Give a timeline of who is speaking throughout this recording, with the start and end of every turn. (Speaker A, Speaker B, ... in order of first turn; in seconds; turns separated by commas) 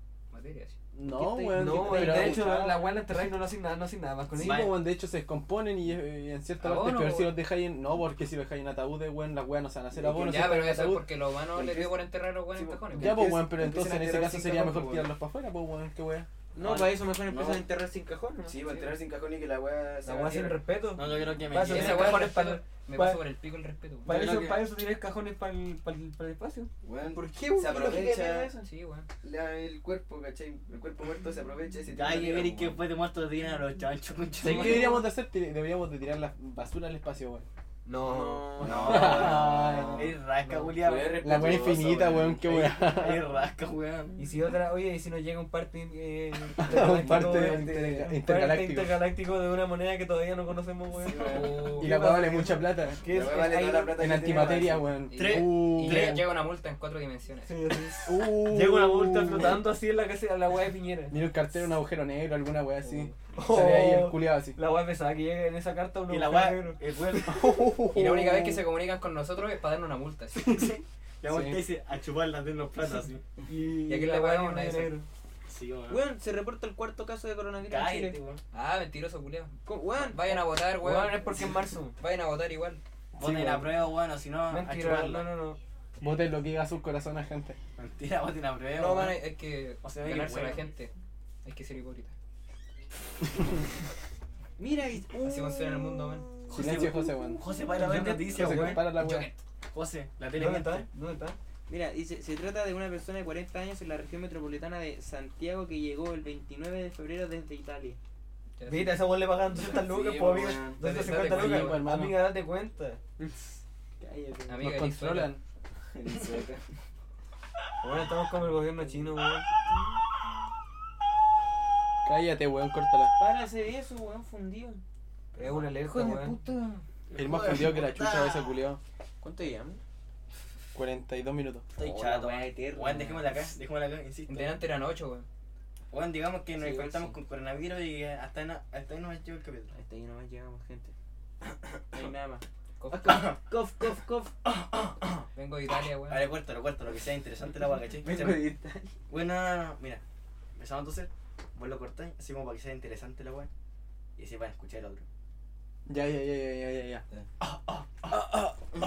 Speaker A: 0.3-0.8, Speaker B: 0.9-2.8, Speaker C: 1.0-2.8, Speaker D: 1.5-4.7, Speaker B: 4.3-11.1, Speaker E: 4.4-4.7, Speaker A: 6.6-7.4, Speaker F: 9.9-10.3, Speaker A: 10.1-13.2, Speaker F: 11.5-15.1, Speaker D: 12.9-13.4, Speaker B: 12.9-16.3, Speaker C: 16.5-18.8, Speaker F: 16.7-17.7, Speaker F: 18.4-21.6, Speaker D: 20.0-23.2, Speaker E: 20.9-22.3, Speaker A: 21.6-24.1, Speaker F: 24.0-24.6, Speaker D: 24.0-26.7, Speaker F: 26.8-28.5, Speaker C: 27.1-28.7, Speaker A: 28.6-29.1, Speaker F: 29.2-32.8, Speaker E: 31.9-35.0, Speaker B: 34.4-37.5, Speaker D: 37.8-38.7, Speaker C: 38.0-39.2, Speaker F: 38.6-40.2, Speaker E: 38.6-44.2, Speaker B: 38.8-40.1, Speaker D: 40.4-40.7, Speaker F: 40.7-42.4, Speaker B: 41.2-43.2, Speaker D: 44.2-54.6, Speaker B: 46.6-49.0, Speaker F: 47.0-47.7, Speaker F: 51.0-51.8, Speaker A: 51.2-51.9, Speaker B: 51.6-53.0, Speaker F: 53.0-54.9, Speaker B: 54.0-56.2, Speaker A: 55.1-57.5, Speaker E: 55.1-56.3, Speaker D: 57.4-61.2, Speaker B: 58.0-59.7, Speaker B: 61.1-64.6, Speaker D: 62.8-66.8, Speaker E: 66.1-67.5, Speaker B: 67.2-68.6, Speaker A: 67.9-70.6, Speaker E: 70.4-73.2, Speaker B: 71.3-71.6, Speaker D: 73.5-75.0, Speaker A: 73.9-75.0, Speaker E: 75.5-76.0, Speaker C: 75.9-78.2, Speaker E: 77.6-78.4, Speaker A: 78.5-82.8, Speaker C: 79.6-80.7, Speaker D: 80.8-82.0, Speaker E: 83.2-85.3, Speaker B: 83.2-83.7, Speaker D: 84.5-85.6, Speaker B: 86.0-87.6, Speaker E: 87.8-89.2, Speaker A: 88.7-90.9, Speaker E: 89.8-90.7, Speaker A: 91.4-92.1, Speaker C: 94.6-96.9, Speaker A: 95.1-96.3, Speaker E: 96.5-98.9, Speaker B: 96.5-99.3, Speaker D: 97.7-98.8, Speaker A: 98.9-99.4, Speaker E: 99.7-100.9, Speaker D: 100.3-101.4, Speaker C: 101.7-108.0, Speaker A: 108.6-109.1, Speaker D: 108.7-113.0, Speaker F: 109.5-110.8, Speaker A: 110.8-111.8, Speaker B: 110.8-112.2, Speaker C: 114.0-114.5, Speaker A: 114.5-115.3, Speaker B: 114.6-115.4, Speaker F: 115.9-116.7, Speaker D: 117.8-119.5, Speaker C: 118.8-120.1, Speaker B: 122.0-123.2, Speaker C: 123.2-124.8, Speaker D: 125.4-126.4, Speaker C: 125.8-126.8, Speaker E: 127.1-128.6, Speaker B: 127.1-128.8, Speaker C: 129.2-129.8, Speaker B: 130.7-131.7, Speaker E: 131.8-134.6, Speaker C: 131.8-133.2, Speaker A: 132.8-133.2, Speaker A: 134.3-135.3, Speaker E: 135.9-139.7, Speaker A: 136.6-137.2, Speaker C: 139.7-140.9, Speaker C: 141.9-144.3, Speaker A: 142.8-143.2, Speaker E: 142.9-145.3, Speaker A: 145.3-146.3, Speaker E: 146.1-148.5, Speaker C: 148.0-148.9, Speaker E: 149.1-150.0, Speaker E: 150.6-153.5, Speaker E: 154.2-155.1, Speaker B: 155.9-157.0